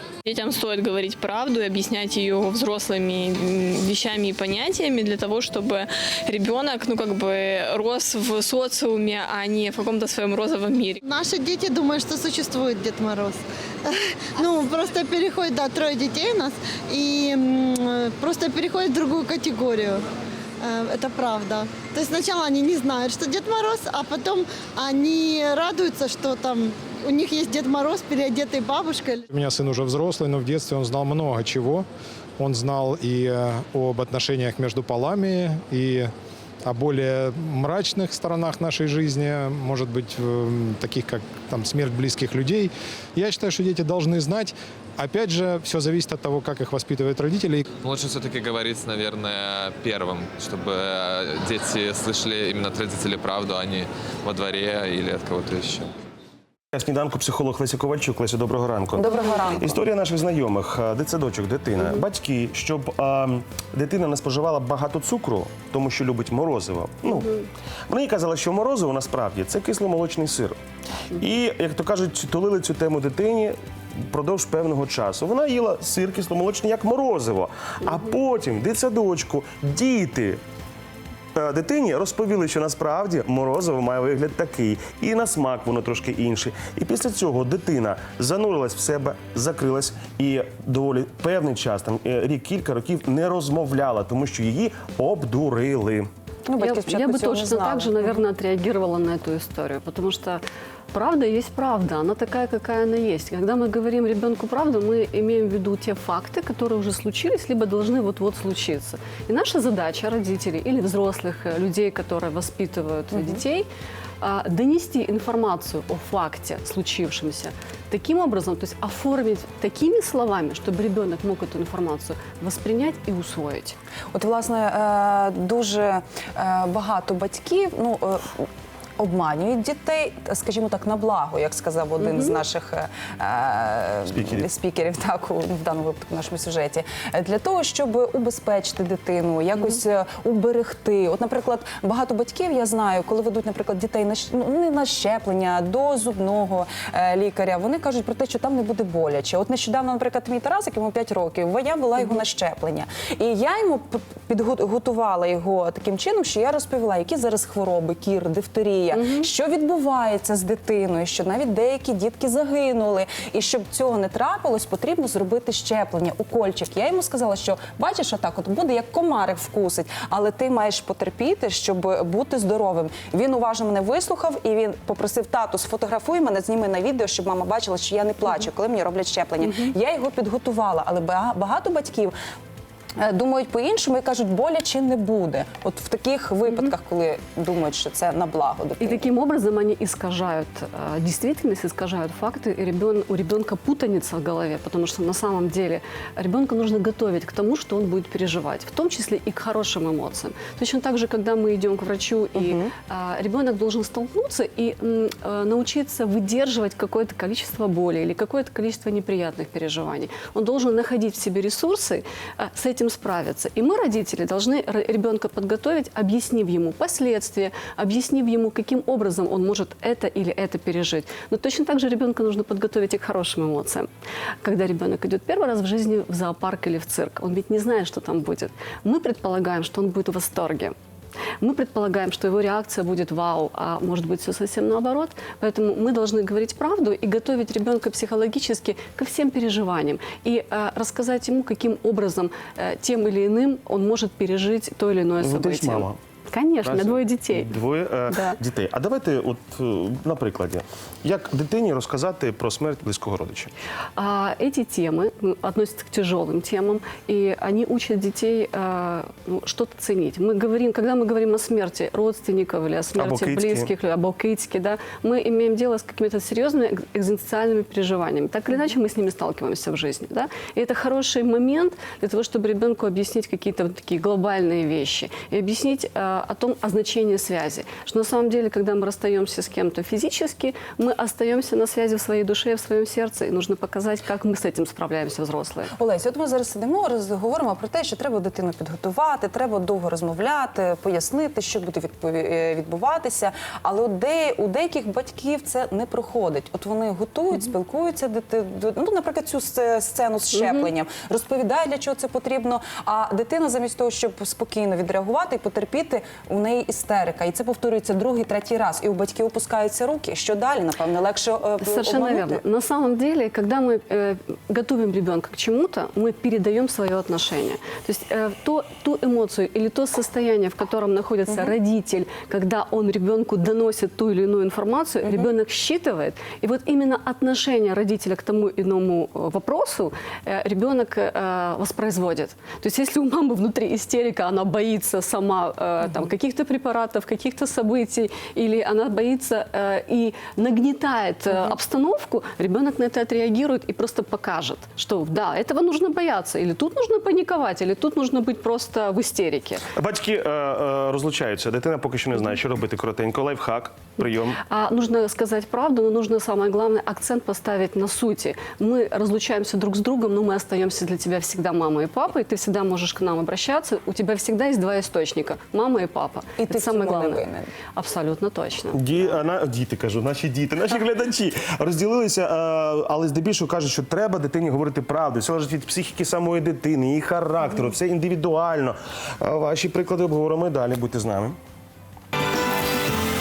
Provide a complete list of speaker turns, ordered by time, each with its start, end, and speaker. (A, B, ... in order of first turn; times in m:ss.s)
0:00.2-0:11.0 A
0:11.0-0:20.0 B
0:20.6-0:29.2 B
0:29.3-0:31.9 C
0:32.4-0:36.1 C
0:36.6-0:47.6 C
0:47.8-0:55.9 D
0:56.7-1:07.4 E
0:59.0-0:59.8 F
1:07.9-1:10.6 E
1:11.2-1:13.6 E
1:14.1-1:20.4 E
1:21.3-1:36.1 E
1:36.5-1:38.2 F
1:36.6-1:40.4 G
1:40.9-1:53.7 G
1:53.1-1:53.4 F
1:54.2-2:03.8 G
2:04.1-2:08.5 F
2:09.0-3:02.2 F
2:12.0-2:12.4 G
2:14.1-2:14.5 E
2:38.9-2:39.3 G
3:03.0-3:09.0 F
3:08.8-3:43.9 G
3:22.4-3:22.7 F
3:44.4-3:50.8 G
3:51.4-4:07.6 G
4:05.2-4:06.0 E
4:06.6-4:13.5 E
4:08.1-4:08.4 G
4:14.0-4:45.7 G
4:23.0-4:23.7 E
4:45.8-5:12.4 F
5:11.6-5:49.6 G
5:49.8-5:54.4 E
5:54.5-6:07.2 G
6:06.4-6:07.5 F
6:07.8-6:08.9 G
6:08.7-6:21.4 E